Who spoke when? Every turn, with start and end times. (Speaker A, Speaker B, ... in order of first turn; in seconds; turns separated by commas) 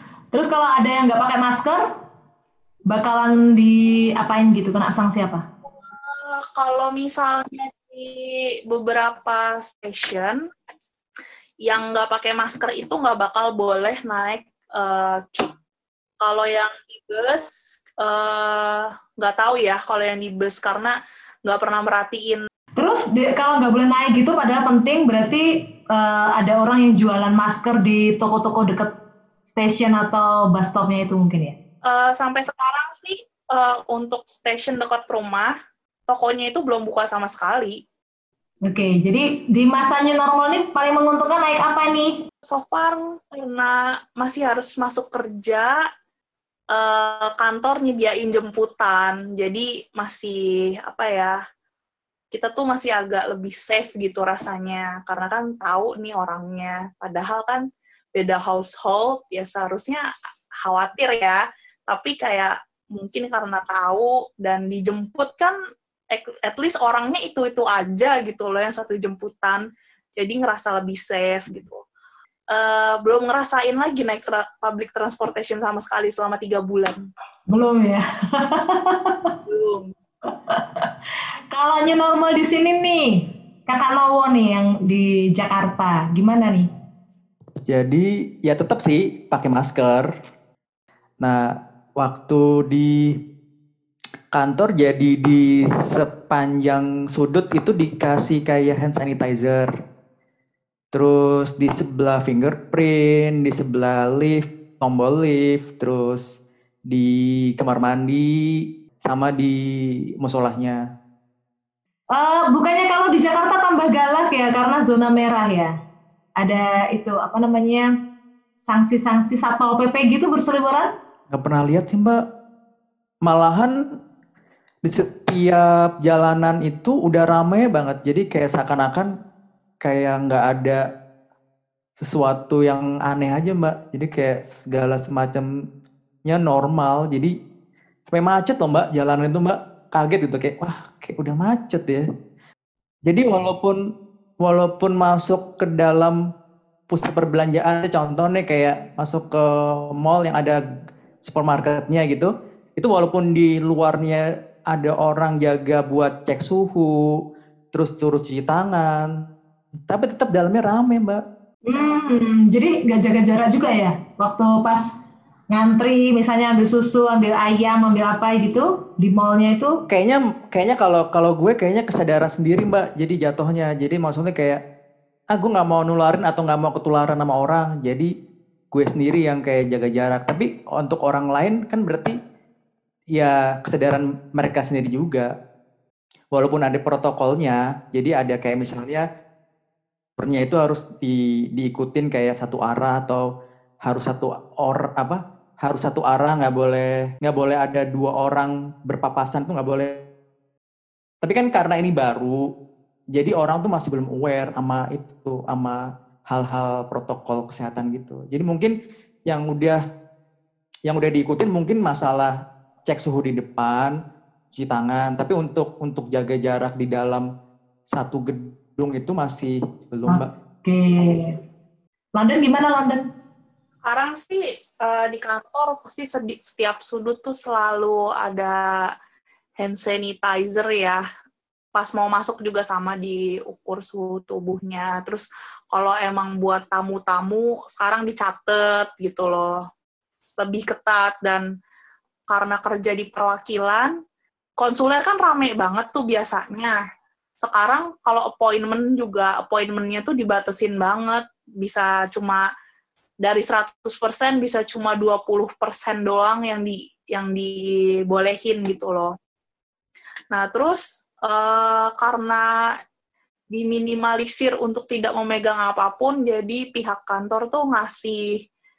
Speaker A: 0.3-1.9, Speaker A: 2.9-5.4, Speaker B: 6.0-10.4, Speaker B: 11.6-15.5, Speaker B: 16.2-20.9, Speaker B: 21.4-22.4, Speaker A: 22.8-28.9, Speaker A: 29.5-31.6, Speaker B: 31.9-35.5, Speaker B: 36.1-37.8, Speaker A: 38.6-42.2, Speaker B: 42.5-45.7, Speaker B: 46.7-51.3, Speaker B: 52.3-60.0, Speaker B: 60.6-65.6, Speaker B: 66.1-69.6, Speaker B: 70.2-71.8, Speaker B: 72.5-77.1, Speaker A: 77.5-79.3, Speaker B: 79.5-79.9, Speaker A: 80.3-80.9, Speaker A: 81.5-86.7, Speaker C: 87.7-90.1, Speaker C: 91.2-91.5, Speaker C: 92.0-93.1, Speaker C: 94.3-99.7, Speaker C: 100.9-109.6, Speaker C: 110.2-110.8, Speaker A: 112.1-115.7, Speaker A: 116.4-117.9, Speaker A: 118.7-120.9, Speaker C: 121.3-122.2, Speaker C: 123.2-123.8, Speaker C: 124.8-129.1, Speaker C: 129.8-130.8, Speaker C: 132.0-135.5, Speaker C: 136.2-137.3, Speaker C: 138.1-142.1, Speaker C: 143.1-143.8, Speaker C: 144.4-146.2, Speaker C: 146.9-150.6, Speaker C: 151.2-156.9, Speaker C: 157.7-159.3, Speaker C: 159.9-161.2, Speaker A: 161.7-164.9, Speaker A: 165.5-169.8, Speaker C: 169.9-174.6, Speaker C: 175.3-178.1, Speaker C: 178.7-182.2, Speaker C: 183.1-185.3, Speaker C: 186.3-189.1, Speaker C: 190.2-193.3, Speaker C: 193.8-200.1, Speaker C: 201.2-202.4, Speaker C: 203.1-208.7, Speaker C: 209.3-209.8, Speaker C: 210.9-212.3, Speaker C: 212.8-213.9, Speaker C: 214.5-217.3, Speaker C: 217.9-220.3, Speaker A: 220.1-221.3, Speaker A: 222.2-223.0, Speaker B: 223.9-228.9, Speaker B: 229.6-231.0, Speaker B: 231.7-239.6, Speaker B: 240.4-241.4, Speaker B: 242.3-243.9, Speaker B: 244.6-246.8, Speaker B: 247.4-252.4, Speaker B: 253.2-257.6, Speaker B: 258.1-259.1, Speaker B: 260.3-262.5, Speaker B: 263.5-268.3